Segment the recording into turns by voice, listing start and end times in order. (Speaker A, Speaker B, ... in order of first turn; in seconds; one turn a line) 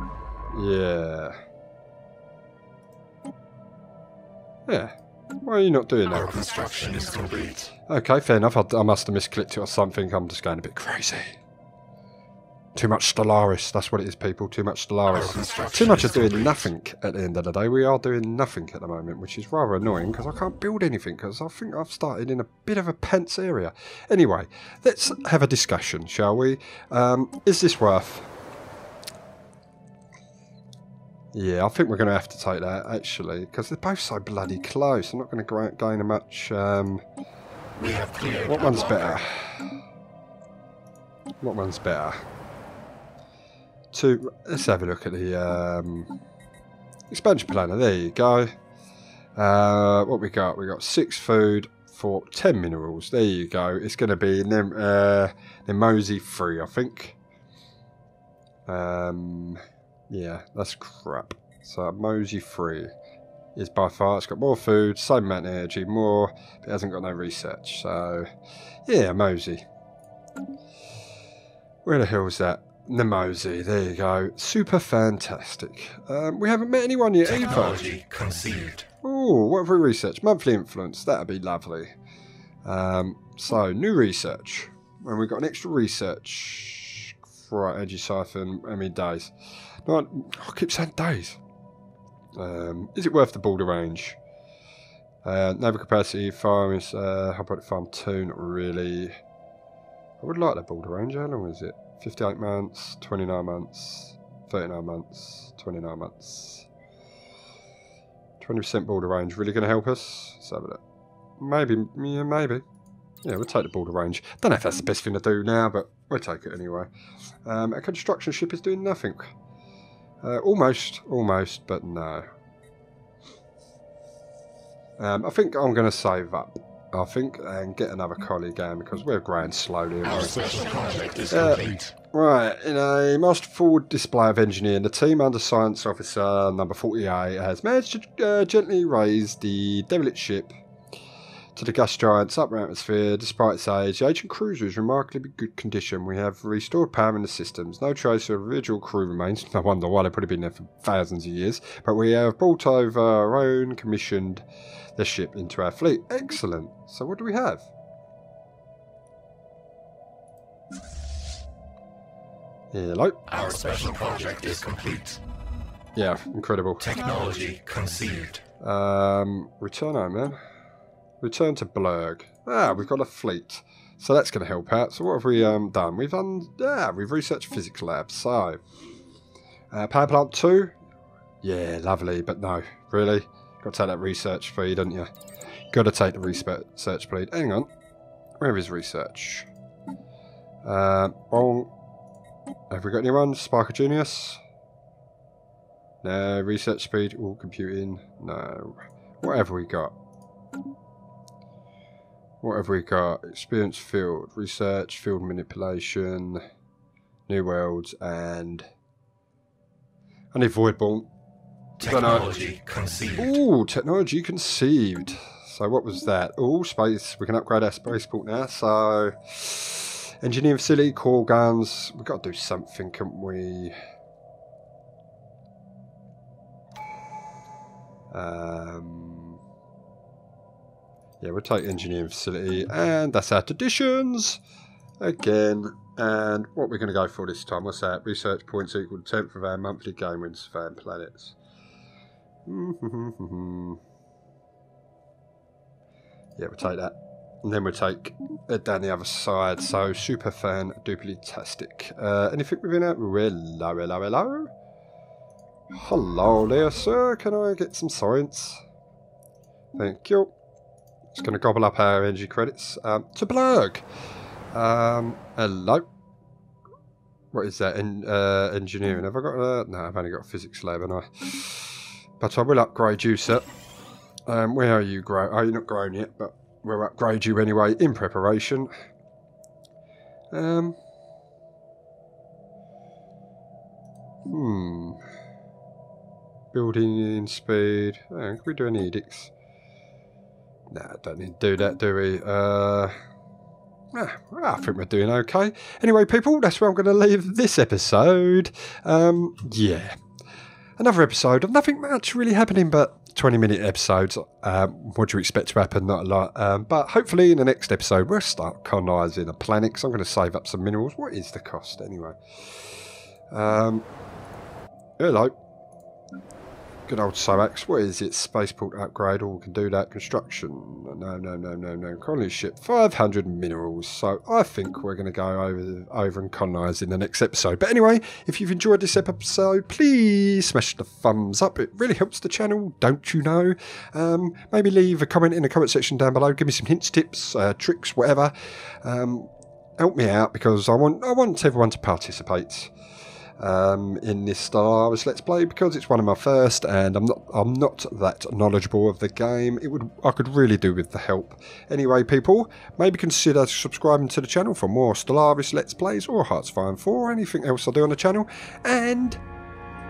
Speaker A: 0.5-1.4
Speaker A: 4.7-6.8
Speaker B: 6.5-7.6
Speaker A: 7.8-11.4
Speaker A: 12.8-28.3
Speaker A: 31.3-37.0
Speaker B: 37.8-38.4
Speaker A: 38.4-39.7
Speaker A: 41.4-42.2
Speaker A: 43.9-46.2
Speaker A: 47.1-48.5
Speaker A: 49.4-57.2
Speaker A: 58.7-62.9
Speaker A: 63.5-68.3
Speaker A: 68.9-69.7
Speaker A: 71.8-78.0
Speaker B: 77.8-78.8
Speaker A: 79.0-81.9
Speaker A: 82.7-89.3
Speaker A: 89.8-91.4
Speaker A: 92.4-94.2
Speaker A: 95.2-99.2
Speaker A: 100.2-106.7
Speaker A: 108.4-110.8
Speaker A: 111.4-112.6
Speaker A: 113.2-116.9
Speaker A: 117.5-119.3
Speaker A: 120.2-122.3
Speaker A: 125.0-130.6
Speaker B: 130.6-131.8
Speaker A: 131.3-140.5
Speaker A: 141.6-154.4
Speaker A: 155.0-157.7
Speaker A: 162.7-163.4
Speaker B: 163.4-165.2
Speaker A: 165.9-166.9
Speaker B: 166.9-168.4
Speaker A: 168.6-170.4
Speaker A: 171.2-178.6
Speaker A: 179.7-180.8
Speaker A: 181.4-185.1
Speaker A: 185.7-187.7
Speaker A: 188.4-189.5
Speaker A: 190.6-191.7
Speaker A: 192.7-194.4
Speaker A: 196.0-199.9
Speaker A: 202.4-206.4
Speaker A: 207.3-208.7
Speaker A: 210.3-211.1
Speaker A: 211.8-212.5
Speaker B: 212.3-213.2
Speaker A: 213.1-223.8
Speaker A: 228.1-229.4
Speaker A: 231.2-234.4
Speaker A: 235.0-241.4
Speaker A: 242.5-243.8
Speaker A: 246.4-254.5
Speaker A: 255.7-258.6
Speaker A: 259.8-260.3
Speaker A: 261.1-263.9
Speaker A: 264.5-265.9
Speaker A: 267.3-273.4
Speaker A: 274.3-278.7
Speaker A: 280.3-280.8
Speaker A: 284.3-285.0
Speaker A: 286.5-289.3
Speaker A: 290.7-292.9
Speaker A: 293.9-300.0
Speaker A: 300.8-312.7
Speaker A: 313.3-313.9
Speaker A: 315.0-315.3
Speaker A: 316.9-342.7
Speaker A: 343.4-359.2